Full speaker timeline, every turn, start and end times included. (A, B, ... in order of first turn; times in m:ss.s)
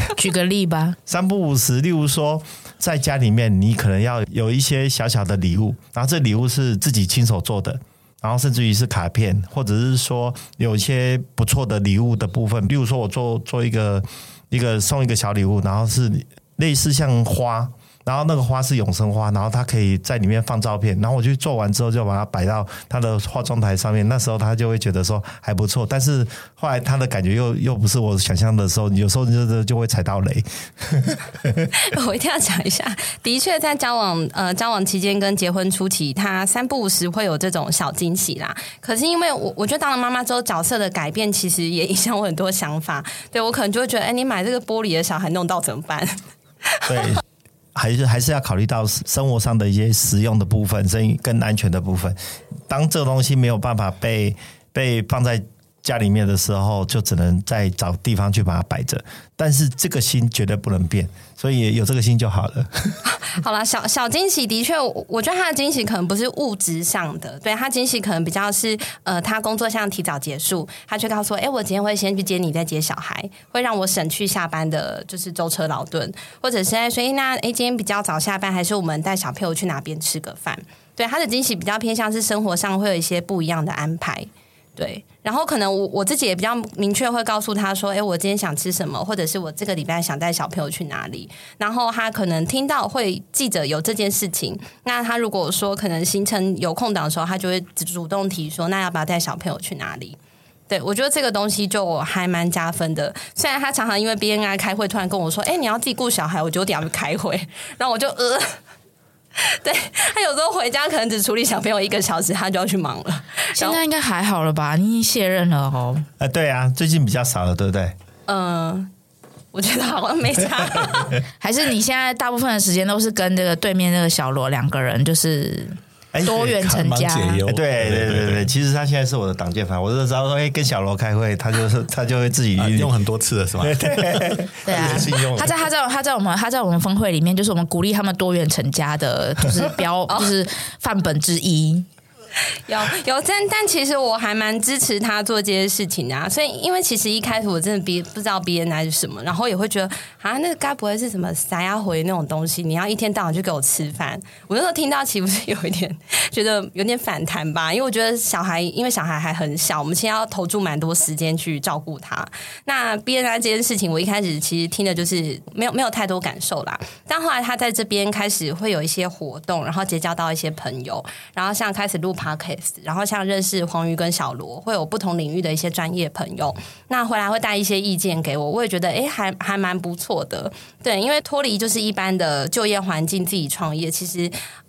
0:00.1-0:01.0 A
0:01.1-0:31.7 B
0:31.7-0:47.2 C
0:46.9-0:47.2 B
0:47.7-0:52.2 B
0:52.7-1:03.0 B
1:03.1-1:40.2 C
1:40.7-1:48.6 C
1:49.4-1:53.8 C
1:53.5-1:56.0 A
1:56.2-1:57.9 B
1:58.3-1:58.9 C
1:59.5-2:01.2 C
2:01.4-2:07.4 A
2:06.1-2:06.8 B
2:06.6-2:08.5 D
2:07.4-2:12.9 B
2:12.6-2:15.5 D
2:13.6-2:15.0 B
2:14.6-2:21.8 A
2:22.6-3:04.3 C